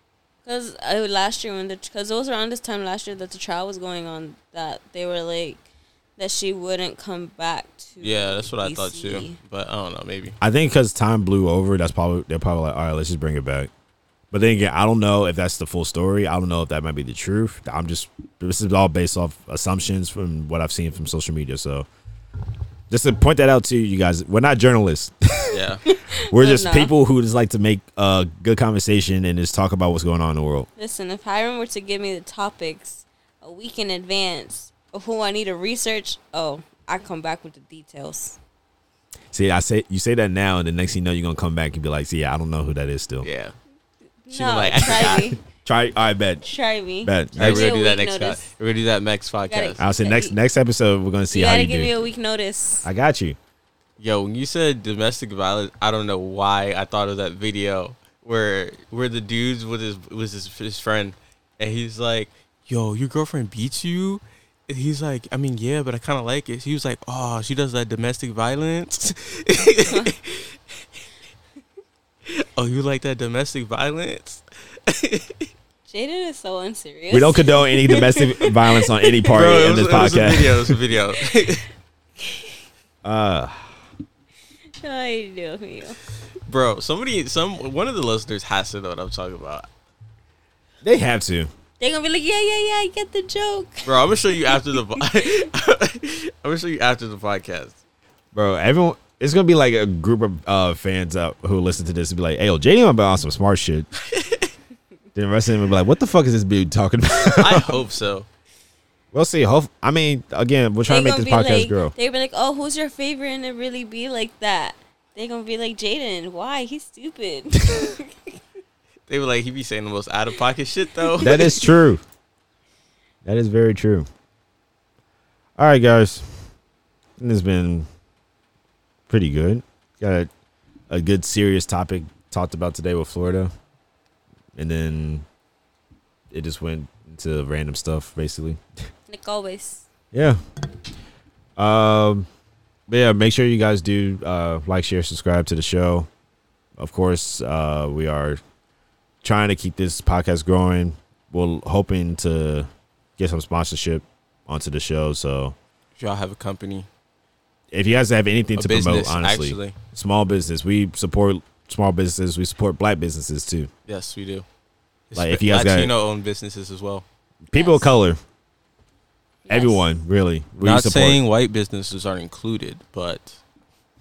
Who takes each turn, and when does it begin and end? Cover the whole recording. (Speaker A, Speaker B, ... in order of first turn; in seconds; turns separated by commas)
Speaker A: 0.5-5.6, Speaker A: 6.2-9.4, Speaker B: 8.0-10.4, Speaker C: 10.4-13.7, Speaker C: 14.3-21.9, Speaker C: 22.9-25.6, Speaker B: 25.5-25.8, Speaker A: 25.9-26.9, Speaker C: 26.2-30.7, Speaker A: 30.8-38.4, Speaker C: 39.3-43.3, Speaker B: 43.2-43.5, Speaker A: 44.3-45.4, Speaker B: 44.3-45.4, Speaker C: 44.8-46.5, Speaker A: 46.4-48.5, Speaker C: 47.0-47.7, Speaker B: 47.4-49.8, Speaker A: 49.5-50.4, Speaker C: 49.8-51.9, Speaker A: 51.3-52.9, Speaker C: 52.8-53.4, Speaker B: 54.0-70.5, Speaker A: 69.9-70.1, Speaker B: 72.3-75.5, Speaker A: 75.9-78.8, Speaker C: 77.1-80.8, Speaker B: 79.2-81.7, Speaker A: 82.2-82.5, Speaker C: 83.0-83.8, Speaker A: 84.8-86.0, Speaker B: 86.5-89.7, Speaker C: 90.8-91.5, Speaker A: 91.8-93.8, Speaker B: 93.9-97.8, Speaker A: 94.5-95.0, Speaker C: 98.3-103.9, Speaker B: 104.1-104.5, Speaker C: 105.2-107.8, Speaker B: 107.3-108.3, Speaker C: 109.1-111.9, Speaker A: 110.9-118.3, Speaker B: 119.1-121.5, Speaker C: 121.2-122.0, Speaker A: 121.2-121.6, Speaker C: 123.2-124.1, Speaker C: 125.6-126.3, Speaker C: 127.2-127.9, Speaker C: 129.1-130.3, Speaker C: 130.9-133.5, Speaker C: 134.6-135.2, Speaker C: 136.3-138.6, Speaker A: 139.1-139.9, Speaker C: 140.1-140.4, Speaker C: 141.6-142.3, Speaker C: 142.9-146.1, Speaker C: 146.8-148.4, Speaker C: 149.2-155.6, Speaker B: 156.0-156.9, Speaker C: 157.7-163.7, Speaker B: 158.6-159.8, Speaker B: 163.9-164.4, Speaker B: 165.1-167.0, Speaker C: 165.1-165.9, Speaker C: 167.5-168.2, Speaker A: 167.5-167.9, Speaker A: 169.5-169.8, Speaker C: 169.5-171.2, Speaker B: 170.6-173.4